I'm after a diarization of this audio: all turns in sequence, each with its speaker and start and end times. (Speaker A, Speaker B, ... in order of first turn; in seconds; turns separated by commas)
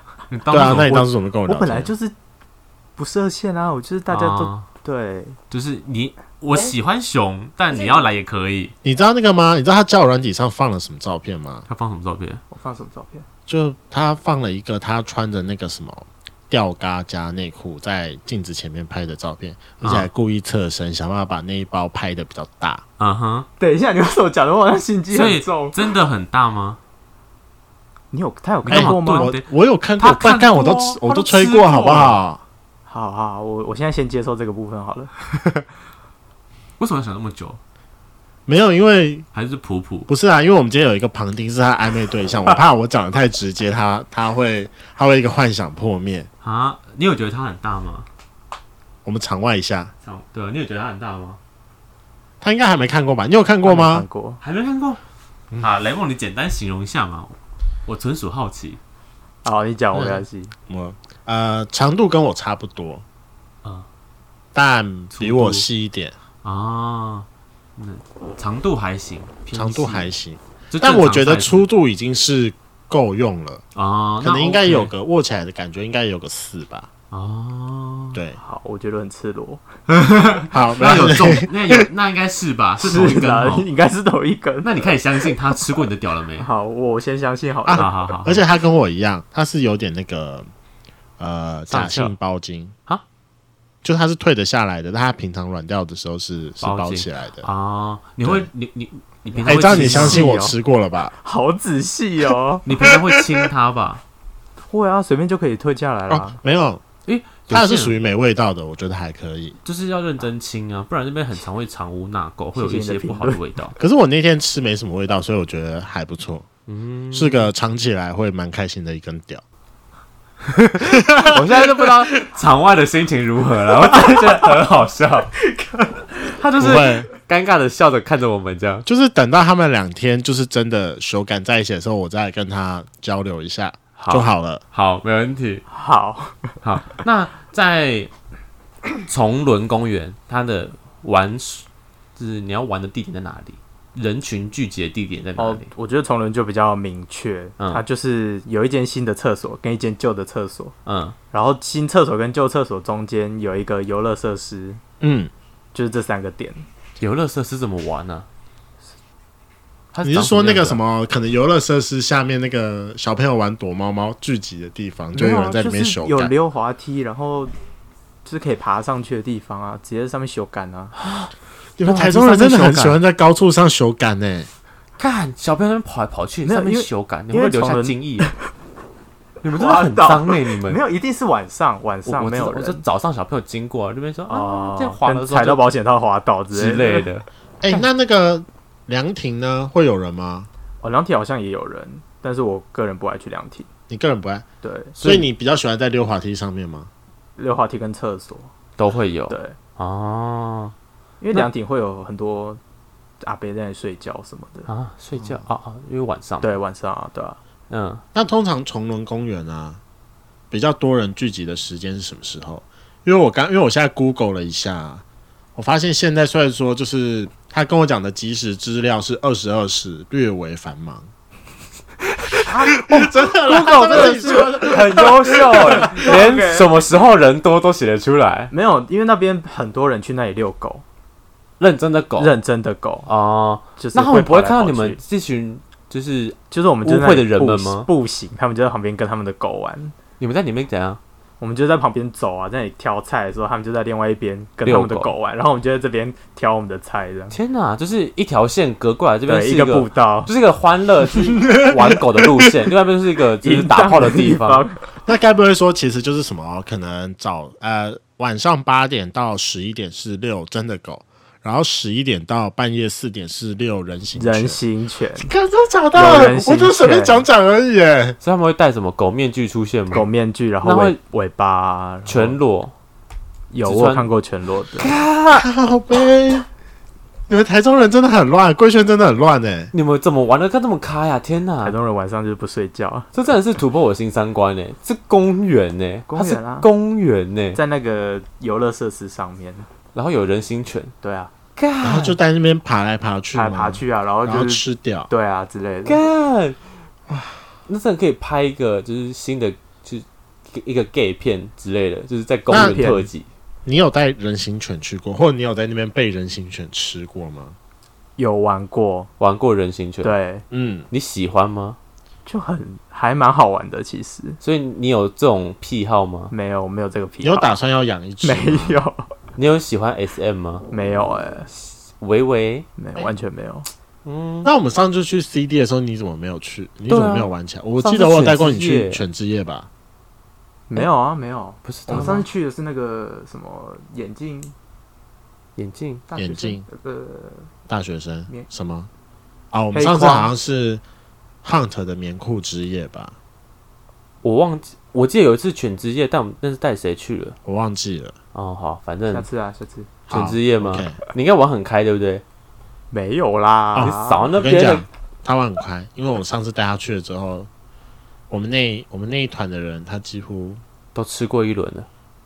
Speaker A: 0.3-0.9, Speaker B: 0.5-1.9, Speaker C: 0.8-2.1, Speaker C: 3.0-5.4, Speaker A: 4.1-4.7, Speaker A: 5.5-8.7, Speaker B: 8.8-11.6, Speaker A: 11.7-12.4, Speaker C: 12.5-13.2, Speaker B: 13.5-22.8, Speaker A: 19.8-20.1, Speaker A: 23.0-23.4, Speaker C: 23.6-25.8, Speaker A: 25.1-26.8, Speaker C: 28.1-29.3, Speaker B: 28.6-32.4, Speaker A: 28.7-29.4, Speaker A: 30.0-32.2, Speaker C: 32.9-35.6, Speaker A: 36.8-37.6, Speaker B: 38.5-39.2, Speaker A: 39.3-40.1, Speaker B: 40.1-46.3, Speaker A: 46.4-48.1, Speaker B: 49.0-49.9, Speaker A: 50.0-51.4, Speaker B: 52.4-54.0, Speaker C: 53.6-54.4, Speaker A: 54.4-55.0, Speaker A: 55.6-57.3, Speaker A: 57.9-58.8, Speaker C: 59.4-60.5, Speaker B: 59.9-63.0, Speaker B: 64.5-66.1, Speaker A: 65.1-65.7, Speaker A: 66.4-70.1, Speaker B: 69.5-73.6, Speaker A: 70.7-71.7, Speaker A: 73.7-74.9, Speaker B: 74.2-76.9, Speaker A: 77.1-78.2, Speaker B: 78.1-78.4, Speaker C: 78.4-79.6, Speaker B: 80.5-81.8, Speaker A: 80.7-83.7, Speaker C: 82.8-84.8, Speaker A: 84.6-86.5, Speaker C: 86.4-88.0, Speaker B: 87.7-90.5, Speaker A: 87.7-88.4, Speaker B: 91.2-92.7, Speaker A: 91.7-92.1, Speaker B: 93.8-97.5, Speaker A: 96.6-100.3, Speaker B: 98.2-98.5, Speaker C: 99.3-100.5, Speaker B: 99.4-101.1, Speaker C: 101.2-102.7, Speaker A: 102.6-104.0, Speaker B: 102.7-103.5, Speaker C: 104.7-106.4, Speaker B: 106.1-106.8, Speaker A: 107.0-107.9, Speaker B: 107.5-109.5, Speaker A: 109.6-113.7, Speaker C: 112.5-113.4, Speaker B: 113.8-116.5, Speaker A: 116.7-117.5, Speaker B: 117.1-119.4, Speaker A: 120.5-125.4, Speaker B: 120.8-121.7, Speaker C: 125.5-126.0, Speaker A: 126.2-128.8, Speaker B: 126.6-127.1, Speaker B: 128.8-134.6, Speaker A: 134.0-135.7, Speaker C: 135.7-136.6, Speaker A: 136.6-138.1, Speaker A: 139.0-145.7, Speaker C: 145.3-150.7, Speaker A: 150.8-151.2, Speaker C: 151.3-154.8, Speaker B: 155.0-155.3, Speaker C: 155.7-156.7, Speaker A: 157.0-158.3, Speaker A: 159.9-160.8, Speaker B: 160.0-166.3, Speaker C: 165.1-167.5, Speaker C: 168.2-170.9, Speaker A: 171.0-171.3, Speaker B: 171.8-174.5, Speaker A: 171.8-172.9, Speaker C: 171.9-172.3, Speaker A: 175.0-178.3, Speaker C: 176.4-178.3, Speaker A: 179.4-180.8, Speaker C: 179.5-182.8, Speaker A: 182.0-185.7, Speaker C: 184.3-187.1, Speaker A: 186.5-187.9, Speaker B: 187.6-190.5, Speaker C: 190.8-193.7, Speaker B: 193.9-194.4, Speaker C: 194.6-194.9, Speaker A: 195.0-195.3, Speaker B: 195.0-196.9, Speaker C: 197.4-198.5, Speaker A: 198.8-200.7, Speaker C: 199.3-199.6, Speaker C: 201.2-202.6, Speaker C: 203.2-204.7, Speaker A: 204.7-206.5, Speaker C: 206.4-207.4, Speaker A: 207.7-208.0, Speaker B: 208.1-209.8, Speaker B: 210.5-215.0, Speaker B: 215.6-221.1, Speaker A: 222.3-228.5, Speaker C: 222.5-222.8, Speaker B: 222.7-226.1, Speaker C: 223.6-224.7, Speaker C: 225.5-226.8, Speaker C: 228.5-230.8, Speaker A: 231.6-232.3, Speaker C: 232.2-233.1, Speaker A: 233.1-237.9, Speaker C: 233.8-235.0, Speaker C: 236.5-239.9, Speaker A: 240.2-241.0, Speaker C: 241.4-247.3, Speaker A: 244.6-245.1, Speaker A: 247.3-254.7, Speaker C: 249.3-250.3, Speaker B: 251.3-252.5, Speaker C: 253.4-254.9, Speaker B: 255.0-264.6, Speaker C: 264.1-265.3, Speaker B: 265.2-268.2, Speaker C: 265.9-267.2, Speaker A: 268.2-270.1, Speaker C: 269.9-272.4, Speaker A: 270.6-271.0, Speaker A: 272.1-272.7, Speaker C: 273.5-274.9, Speaker A: 273.6-274.1, Speaker A: 274.8-275.5, Speaker B: 275.3-276.5, Speaker B: 277.3-279.7, Speaker A: 279.7-281.8, Speaker C: 281.6-283.1, Speaker A: 283.1-287.6, Speaker C: 286.1-286.7, Speaker C: 287.5-289.7, Speaker A: 289.9-290.9, Speaker C: 291.0-291.3, Speaker A: 291.6-292.2, Speaker B: 291.8-295.1, Speaker C: 293.3-296.0, Speaker A: 295.8-296.6, Speaker B: 297.1-297.4, Speaker A: 297.7-303.3, Speaker B: 302.5-302.8, Speaker C: 302.5-303.1, Speaker B: 303.6-307.6, Speaker C: 308.2-309.1, Speaker A: 309.2-310.1, Speaker C: 310.0-310.4, Speaker B: 310.5-310.9, Speaker A: 310.9-311.8, Speaker C: 312.2-314.4, Speaker A: 314.4-316.3, Speaker C: 316.3-317.5, Speaker B: 317.2-318.8, Speaker C: 318.2-319.1, Speaker A: 319.4-320.7, Speaker C: 320.7-321.5, Speaker A: 321.6-322.7, Speaker C: 322.8-323.7, Speaker A: 324.0-324.5, Speaker B: 324.4-329.7, Speaker A: 326.9-329.0, Speaker C: 330.7-334.5, Speaker A: 331.6-332.2, Speaker B: 331.9-332.2, Speaker A: 335.6-336.0, Speaker C: 336.1-337.5, Speaker B: 336.1-336.6, Speaker B: 337.7-338.9, Speaker B: 339.5-340.8, Speaker C: 339.7-340.3, Speaker B: 341.4-343.1, Speaker A: 344.2-347.4, Speaker B: 347.4-348.1, Speaker A: 348.3-349.2, Speaker C: 349.1-349.9, Speaker A: 350.1-352.2, Speaker B: 350.1-350.9, Speaker C: 352.9-354.3, Speaker B: 353.7-357.5, Speaker A: 353.8-354.8, Speaker B: 358.3-360.6, Speaker A: 360.9-361.9